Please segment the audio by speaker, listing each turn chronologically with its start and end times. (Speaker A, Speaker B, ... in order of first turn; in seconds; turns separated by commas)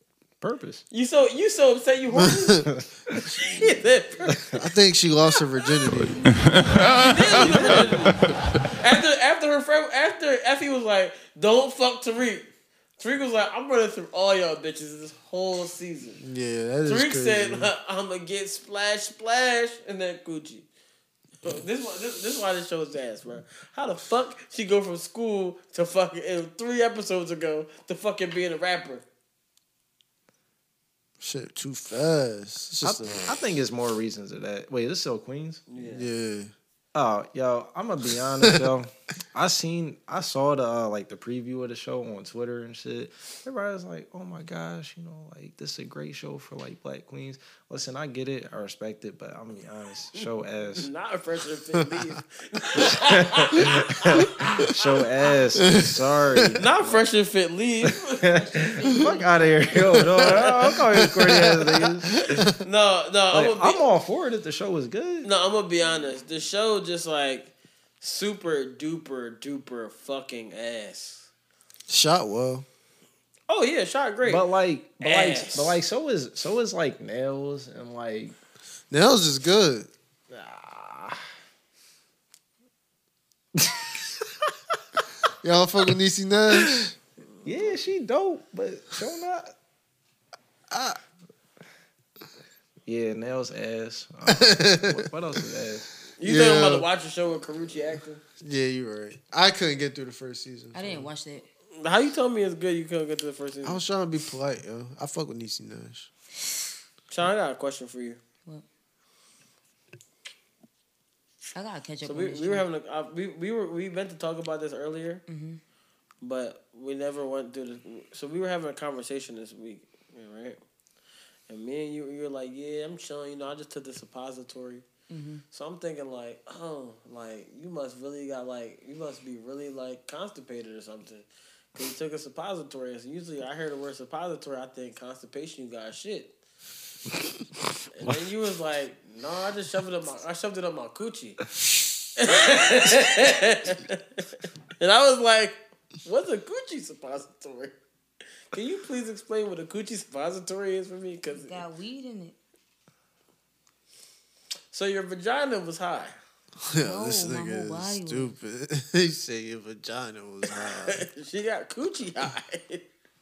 Speaker A: 0.4-0.8, Speaker B: 0.9-2.6, Speaker C: 2.1-2.6, Speaker A: 2.7-3.2, Speaker B: 3.3-4.4, Speaker A: 4.2-4.7, Speaker C: 4.6-6.3, Speaker B: 6.9-8.2, Speaker A: 7.3-7.9, Speaker B: 8.8-12.4, Speaker B: 13.0-16.2, Speaker C: 16.2-17.7, Speaker B: 16.9-20.6, Speaker B: 21.4-29.0, Speaker C: 31.2-33.2, Speaker A: 32.8-35.6, Speaker B: 35.7-36.1, Speaker C: 35.8-36.5, Speaker A: 36.9-50.9, Speaker B: 50.8-54.7, Speaker A: 52.8-57.0, Speaker C: 55.6-56.5, Speaker B: 56.6-58.2, Speaker A: 57.8-62.1, Speaker D: 58.4-59.7, Speaker C: 61.0-62.6, Speaker B: 62.6-63.9, Speaker A: 63.3-65.3, Speaker B: 65.2-71.3, Speaker C: 71.9-72.7, Speaker B: 73.5-74.5, Speaker A: 74.2-78.3, Speaker B: 75.0-75.8, Speaker C: 78.9-79.9, Speaker A: 80.3-81.2, Speaker C: 85.4-86.9, Speaker A: 87.5-89.5, Speaker C: 90.7-91.0, Speaker A: 92.9-95.9, Speaker C: 94.3-95.1, Speaker B: 96.2-98.2, Speaker C: 96.2-96.8, Speaker C: 98.4-101.1, Speaker D: 100.7-101.5, Speaker B: 101.8-103.8, Speaker C: 103.6-106.1, Speaker B: 107.1-108.2, Speaker D: 111.5-112.7, Speaker B: 112.0-115.2, Speaker D: 115.3-115.6, Speaker B: 116.2-120.6, Speaker B: 121.5-124.8, Speaker D: 125.1-125.4, Speaker B: 125.5-136.3, Speaker B: 138.0-141.4, Speaker B: 142.2-144.0, Speaker B: 144.8-147.7, Speaker B: 148.5-151.6, Speaker D: 151.3-152.4, Speaker B: 154.7-156.2, Speaker C: 156.6-161.0, Speaker D: 156.8-158.3, Speaker B: 160.6-162.8